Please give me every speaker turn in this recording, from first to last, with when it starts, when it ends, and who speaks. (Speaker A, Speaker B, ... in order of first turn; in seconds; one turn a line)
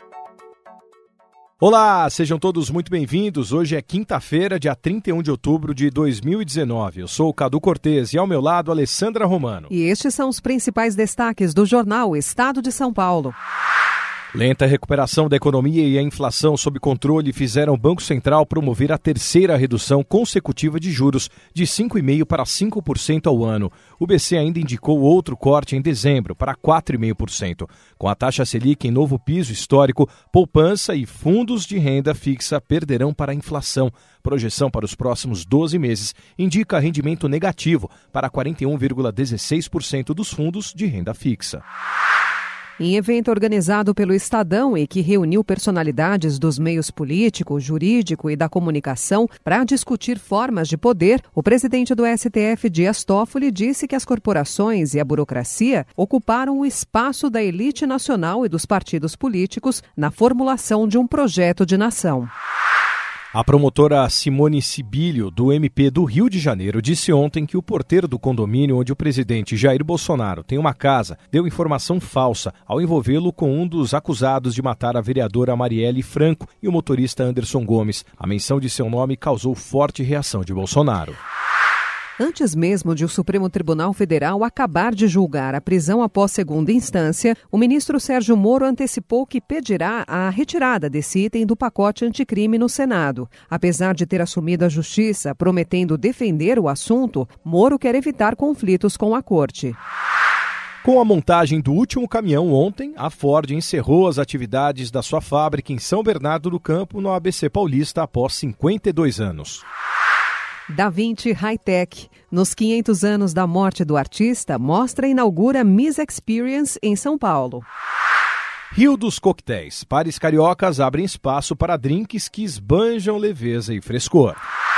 Speaker A: 1.6-9.7
Speaker B: 9.7-13.3
Speaker A: 14.3-41.6
Speaker B: 42.8-62.3
Speaker A: 63.3-81.2
Speaker B: 82.2-99.8
Speaker A: 100.8-109.6
Speaker B: 110.7-117.7
Speaker A: 118.7-124.4